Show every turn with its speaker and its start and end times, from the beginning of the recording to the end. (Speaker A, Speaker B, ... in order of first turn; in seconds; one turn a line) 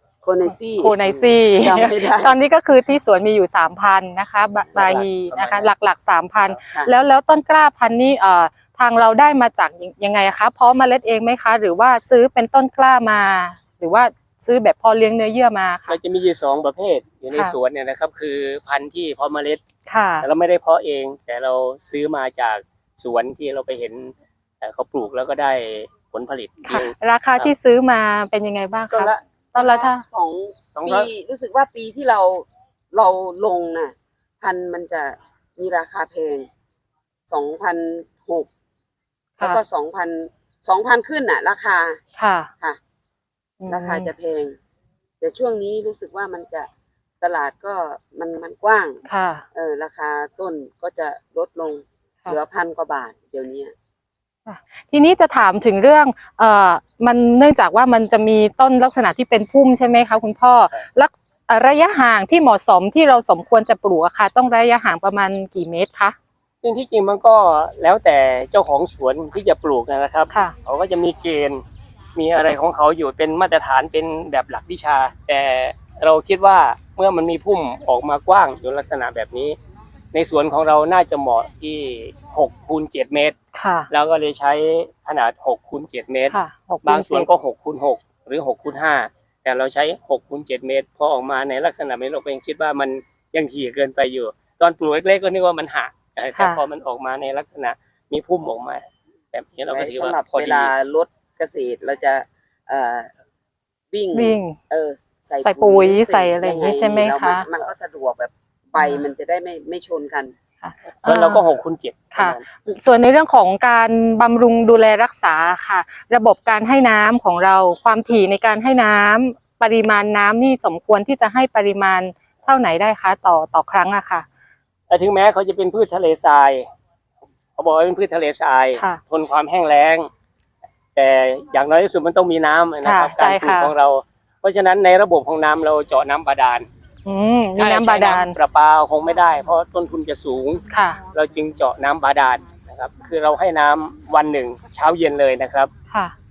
Speaker A: 0.2-2.4
Speaker B: 0.8-16.0
Speaker A: 4.7-5.1
Speaker C: 4.8-5.7
Speaker A: 6.6-6.9
Speaker C: 15.9-19.6
Speaker B: 19.9-20.3
Speaker C: 20.2-27.5
Speaker B: 26.7-30.0
Speaker C: 28.9-29.2
Speaker A: 29.6-36.5
Speaker C: 30.5-31.1
Speaker A: 37.3-38.5
Speaker A: 39.4-42.0
Speaker B: 42.2-42.5
Speaker B: 43.6-44.1
Speaker A: 43.7-44.6
Speaker A: 45.2-46.7
Speaker A: 47.2-49.0
Speaker B: 49.0-49.5
Speaker A: 49.5-53.7
Speaker B: 54.5-66.2
Speaker C: 66.6-71.6
Speaker C: 72.2-79.6
Speaker C: 80.1-83.3
Speaker B: 83.5-83.9
Speaker C: 83.9-100.7
Speaker B: 86.3-87.3
Speaker B: 96.4-96.6
Speaker A: 99.7-103.1
Speaker A: 103.9-110.3
Speaker B: 104.1-104.6
Speaker B: 105.4-107.5
Speaker B: 108.8-109.1
Speaker B: 110.6-111.5
Speaker C: 111.0-112.4
Speaker B: 112.1-124.3
Speaker C: 124.9-126.7
Speaker C: 127.6-130.1
Speaker C: 131.0-136.7
Speaker B: 132.8-133.7
Speaker B: 137.1-138.4
Speaker C: 137.6-145.7
Speaker B: 140.7-141.0